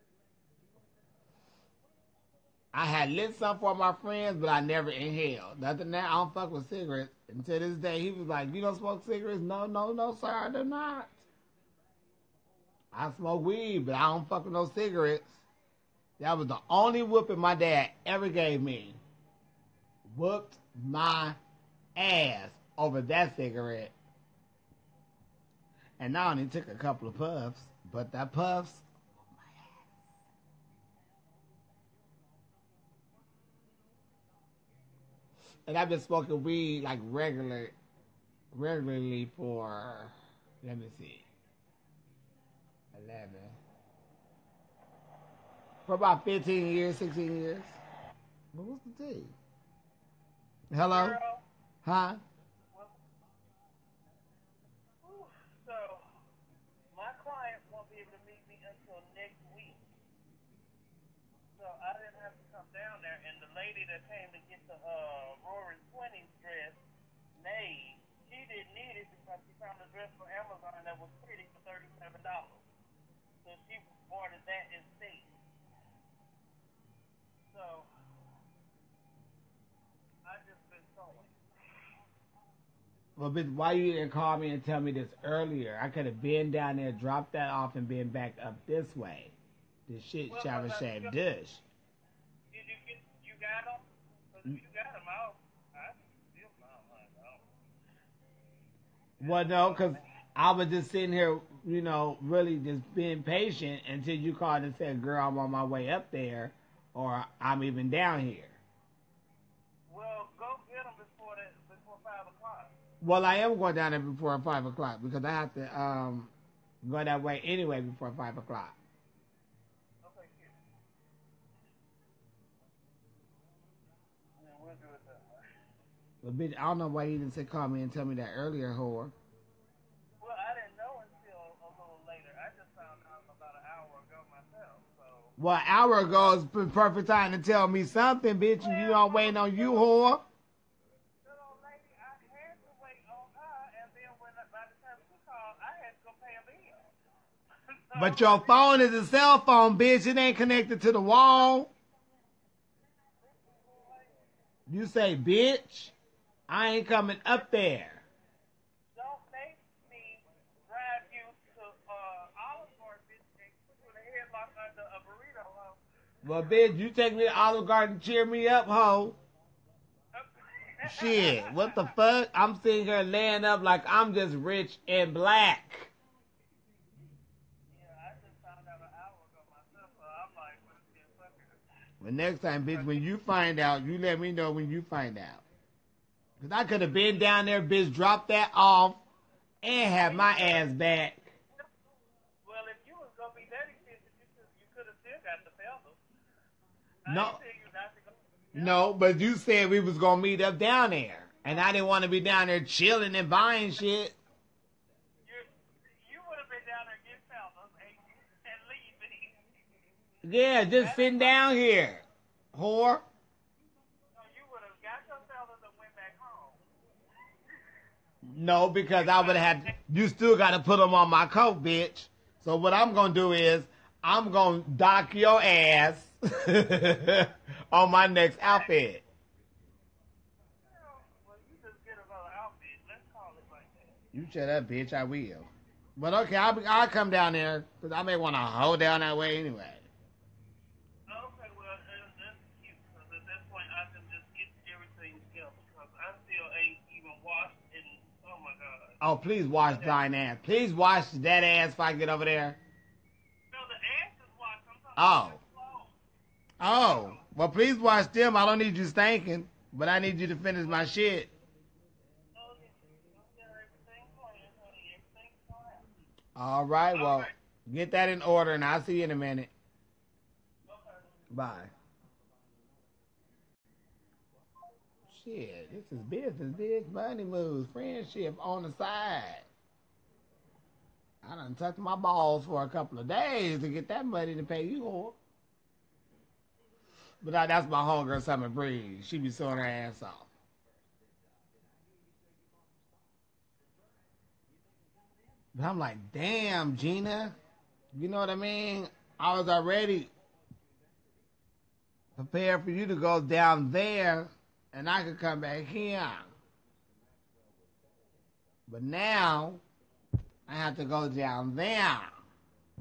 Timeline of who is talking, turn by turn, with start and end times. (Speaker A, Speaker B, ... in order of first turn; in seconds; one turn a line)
Speaker A: 2.7-11.2
Speaker A: 12.9-15.4
Speaker A: 16.2-19.0
Speaker A: 20.1-21.4
Speaker A: 22.0-23.9
Speaker A: 26.0-29.9
Speaker A: 35.7-37.7
Speaker A: 38.5-41.3
Speaker A: 42.9-43.6
Speaker A: 45.9-47.8
Speaker A: 48.5-49.3
Speaker A: 50.7-51.2
Speaker B: 50.9-51.4
Speaker A: 51.8-52.2
Speaker B: 55.0-56.1
Speaker B: 56.9-59.8
Speaker B: 61.6-66.8
Speaker B: 67.4-72.7
Speaker B: 73.4-75.3
Speaker B: 77.5-77.9
Speaker B: 80.2-81.3
Speaker A: 83.2-89.3
Speaker A: 89.9-91.6
Speaker B: 90.3-91.2
Speaker B: 92.5-97.4
Speaker B: 99.2-100.0
Speaker A: 99.2-108.6
Speaker B: 109.9-112.7
Speaker A: 113.0-118.8
Speaker B: 120.0-120.6
Speaker B: 124.3-125.4
Speaker A: 126.2-129.1
Speaker B: 130.2-135.3
Speaker A: 135.4-140.2
Speaker B: 138.6-140.1
Speaker B: 141.2-146.9
Speaker B: 147.9-148.6
Speaker A: 147.9-151.7
Speaker B: 153.3-154.2
Speaker A: 154.7-155.9
Speaker A: 156.5-158.1
Speaker B: 158.9-166.6
Speaker A: 166.2-169.2
Speaker B: 170.2-171.9
Speaker A: 170.8-175.9
Speaker B: 177.7-181.6
Speaker A: 182.0-185.4
Speaker B: 182.7-183.1
Speaker A: 186.4-189.0
Speaker A: 189.6-191.4
Speaker B: 189.9-190.7
Speaker B: 192.4-196.0
Speaker B: 197.1-198.8
Speaker A: 197.1-197.4
Speaker A: 198.5-204.2
Speaker B: 205.2-209.4
Speaker A: 210.2-213.0
Speaker B: 210.7-211.4
Speaker B: 214.1-216.6
Speaker A: 218.2-229.0
Speaker B: 218.9-219.7
Speaker B: 228.4-228.7
Speaker B: 230.7-234.0
Speaker A: 234.1-239.9
Speaker B: 241.1-248.9
Speaker A: 249.0-252.6
Speaker B: 249.7-250.0
Speaker B: 253.5-255.9
Speaker A: 255.0-255.4
Speaker A: 256.6-261.3
Speaker B: 256.6-257.2
Speaker B: 262.3-265.9
Speaker A: 266.4-269.5
Speaker B: 266.9-267.3
Speaker B: 270.7-271.2
Speaker A: 271.3-271.7
Speaker A: 275.1-279.5
Speaker A: 281.2-285.2
Speaker A: 287.2-290.3
Speaker A: 295.6-297.4
Speaker A: 297.9-300.1
Speaker A: 302.2-306.3
Speaker A: 308.7-309.6
Speaker A: 310.5-312.2